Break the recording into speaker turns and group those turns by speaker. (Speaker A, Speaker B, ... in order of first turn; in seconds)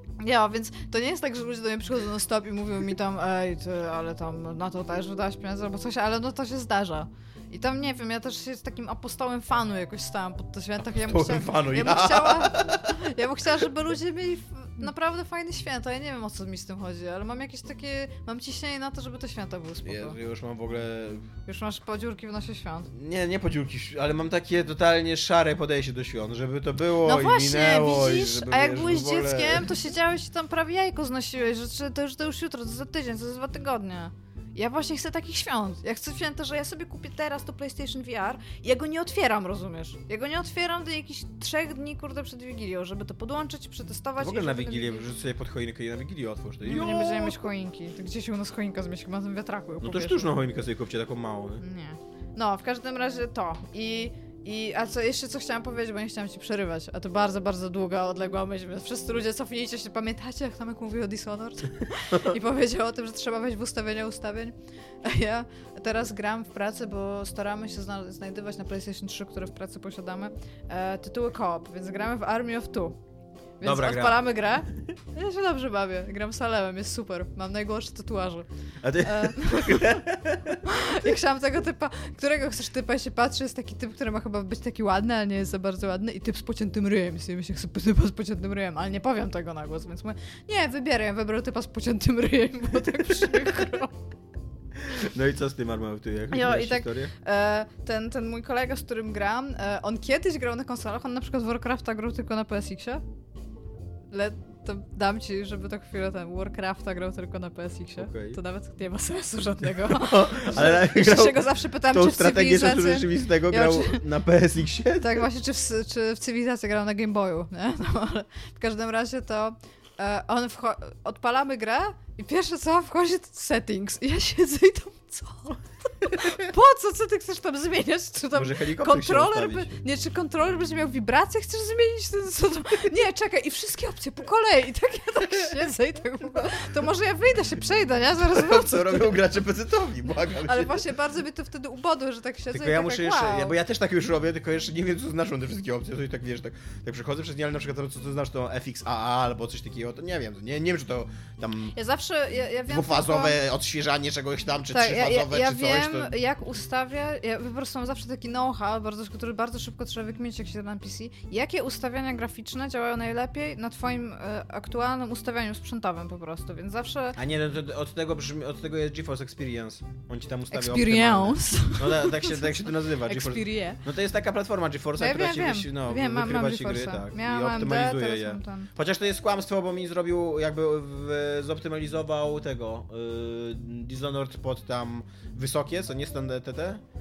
Speaker A: 0.2-20.1, 21.4-22.9, 27.0-45.1, 46.6-50.4, 51.6-73.0, 73.6-78.5, 79.0-80.0, 80.6-94.0, 96.3-103.0, 104.1-114.0, 115.0-139.1, 140.4-143.6, 151.7-153.4, 154.7-167.2, 170.5-173.8, 175.0-178.7
Speaker B: 10.9-13.1, 19.8-21.3, 22.9-29.8, 44.2-47.4, 49.8-51.6, 73.6-74.3, 78.8-80.6, 94.7-97.1, 108.0-108.4, 109.8-115.2, 128.3-129.8, 138.3-140.8, 142.5-151.8, 152.7-156.1, 167.2-186.8